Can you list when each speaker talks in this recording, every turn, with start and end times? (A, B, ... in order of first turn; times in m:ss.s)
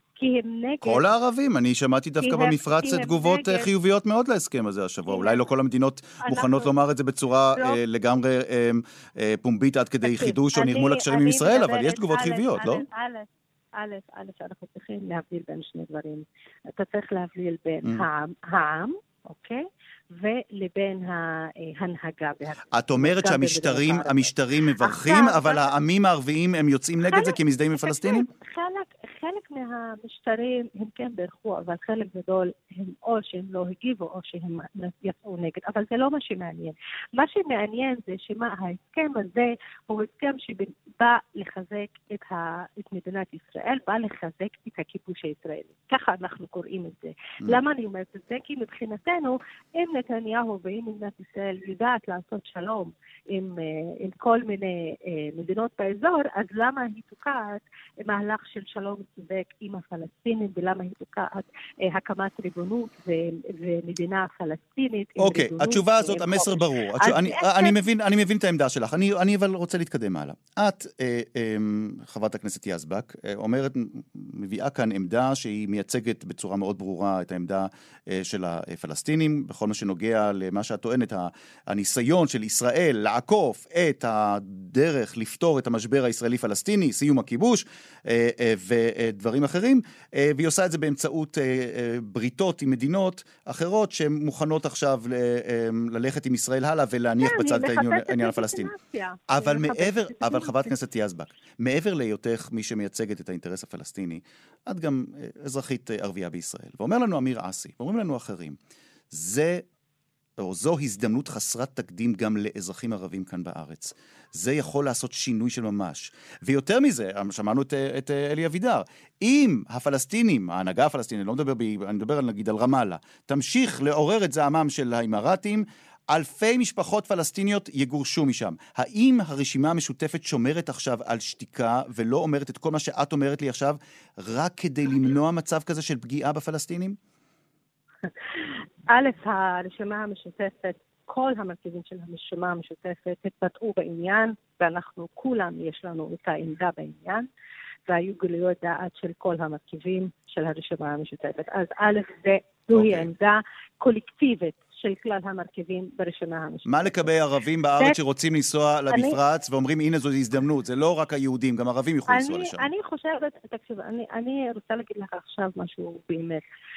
0:00.2-0:01.0 A
0:00.8-0:12.8 B
0:02.2-0:03.7 A
0:05.1-0:05.4 A
0:06.2-0:06.7 A
0:10.0-0:25.7 A
0:22.7-0:28.3 B
0:27.1-1:07.8 A
1:05.2-1:38.7 B
1:37.2-1:40.6 A
1:39.3-1:48.6 B
1:49.1-1:49.6 B
1:50.4-2:17.0 B
2:18.9-2:27.3 A
2:27.9-2:37.1 A
2:32.7-2:33.1 B
2:36.6-2:42.7 B
2:38.9-2:39.2 A
2:42.1-2:46.4 A